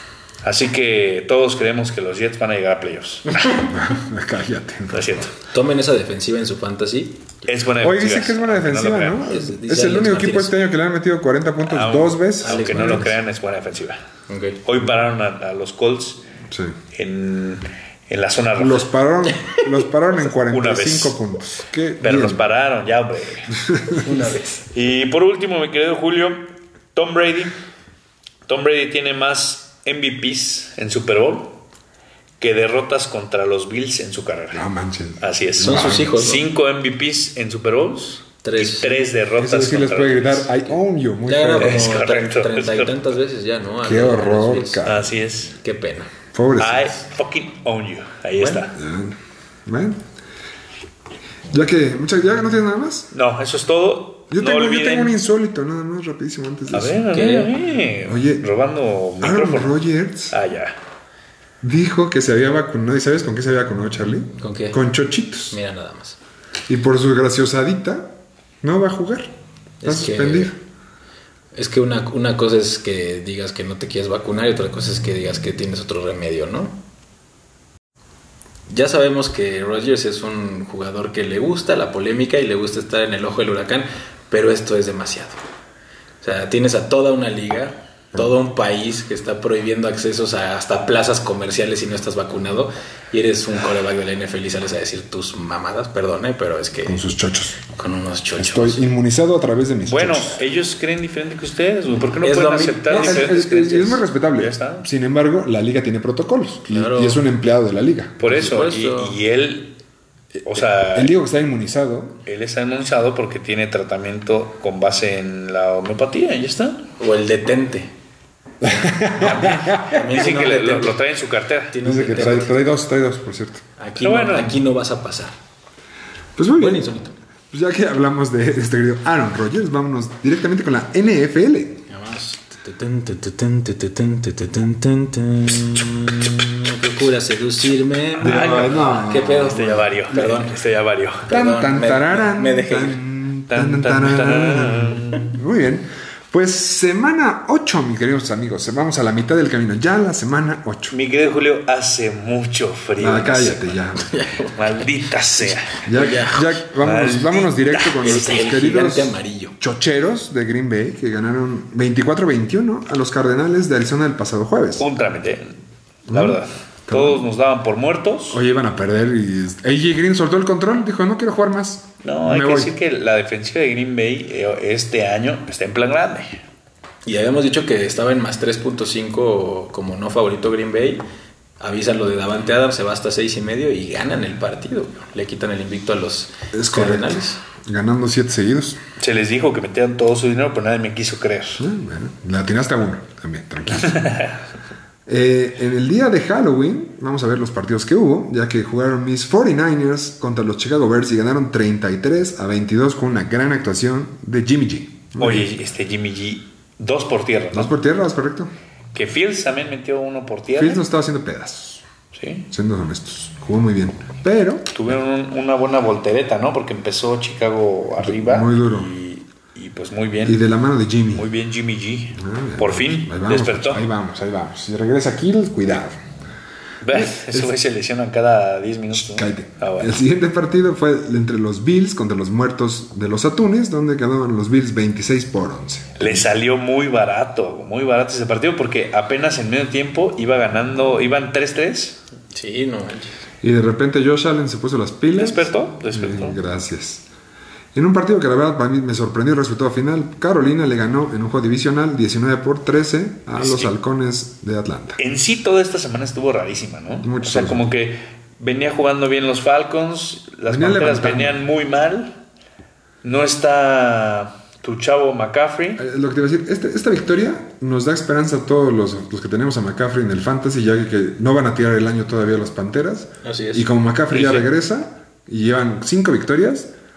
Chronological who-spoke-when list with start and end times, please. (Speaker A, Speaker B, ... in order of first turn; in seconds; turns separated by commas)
Speaker A: 0.4-3.6, Speaker B: 3.6-5.3, Speaker A: 4.9-5.3, Speaker C: 5.5-7.3, Speaker A: 7.5-9.2, Speaker B: 7.8-13.1, Speaker C: 9.3-10.6, Speaker A: 11.6-14.0, Speaker C: 12.4-13.1, Speaker C: 14.3-14.6, Speaker A: 14.6-16.2, Speaker B: 16.5-16.8, Speaker A: 16.9-18.9, Speaker B: 18.6-22.5, Speaker A: 20.4-21.2, Speaker A: 22.0-23.6, Speaker B: 23.7-24.1, Speaker C: 23.9-24.6, Speaker A: 24.7-27.6, Speaker A: 28.5-31.6, Speaker A: 32.4-34.6, Speaker B: 34.5-36.2, Speaker A: 35.2-40.6, Speaker C: 35.6-36.4, Speaker C: 38.4-39.0, Speaker B: 39.4-42.0, Speaker C: 41.3-44.8, Speaker A: 41.6-43.0, Speaker B: 43.8-45.1, Speaker A: 44.8-45.6, Speaker C: 45.6-46.1, Speaker B: 46.3-46.9, Speaker A: 46.6-48.7, Speaker C: 48.4-48.6, Speaker B: 48.7-50.0, Speaker B: 51.5-53.1, Speaker A: 53.1-55.1, Speaker B: 54.3-57.0, Speaker A: 56.7-59.8, Speaker C: 57.1-57.5, Speaker B: 58.0-58.5, Speaker B: 59.2-60.4, Speaker A: 60.3-60.8, Speaker B: 61.6-65.6, Speaker C: 64.4-64.8, Speaker C: 65.5-66.2, Speaker B: 66.7-70.6, Speaker C: 69.8-70.5, Speaker C: 71.5-76.8, Speaker C: 78.7-85.4, Speaker C: 86.2-97.0, Speaker B: 96.8-97.6, Speaker C: 97.7-98.9, Speaker B: 98.4-100.4, Speaker A: 99.8-104.9, Speaker C: 102.2-103.3, Speaker B: 102.9-108.5, Speaker C: 106.7-107.2, Speaker A: 108.2-109.8, Speaker C: 108.2-109.2, Speaker A: 110.4-111.2, Speaker B: 110.5-112.2, Speaker A: 112.2-116.9, Speaker C: 117.0-117.9, Speaker B: 118.6-120.0, Speaker C: 118.8-121.0, Speaker A: 119.2-122.4, Speaker C: 121.7-122.6, Speaker B: 121.8-123.6, Speaker C: 123.8-125.3, Speaker A: 124.0-124.6, Speaker B: 126.3-126.9, Speaker C: 126.6-127.1, Speaker B: 127.5-131.8, Speaker C: 131.9-140.5, Speaker A: 138.2-141.3, Speaker B: 138.2-140.2, Speaker C: 141.2-143.0, Speaker B: 141.3-151.0, Speaker A: 143.5-145.3, Speaker A: 150.9-153.8, Speaker B: 153.0-154.1, Speaker C: 154.1-154.8, Speaker A: 154.5-155.8, Speaker B: 155.8-164.8, Speaker C: 155.8-156.7, Speaker A: 156.8-158.4, Speaker C: 158.0-159.5, Speaker A: 164.8-165.6, Speaker B: 166.1-167.2, Speaker A: 166.1-168.4, Speaker B: 168.3-172.7, Speaker A: 172.0-176.4, Speaker C: 177.1-181.0, Speaker C: 181.6-187.4, Speaker B: 186.5-188.8, Speaker A: 189.0-191.6, Speaker B: 191.6-194.2, Speaker A: 193.8-194.3, Speaker B: 195.1-205.5, Speaker A: 205.2-207.7, Speaker B: 207.5-208.5, Speaker A: 208.9-210.8, Speaker B: 210.5-211.8, Speaker A: 212.1-212.5, Speaker B: 212.5-214.9, Speaker A: 214.7-220.4, Speaker B: 218.0-218.9, Speaker B: 220.2-221.3, Speaker A: 221.2-223.8, Speaker B: 222.2-226.0, Speaker A: 226.8-229.9, Speaker B: 226.9-227.5, Speaker B: 228.9-236.2, Speaker A: 236.0-242.0, Speaker C: 242.3-243.2, Speaker B: 243.4-247.0, Speaker A: 245.1-246.4, Speaker B: 247.7-255.0, Speaker A: 253.4-253.7, Speaker A: 255.0-262.1, Speaker B: 257.0-257.6, Speaker B: 260.5-261.4, Speaker A: 263.0-265.8, Speaker B: 265.8-276.7, Speaker C: 273.2-273.7, Speaker A: 274.1-274.5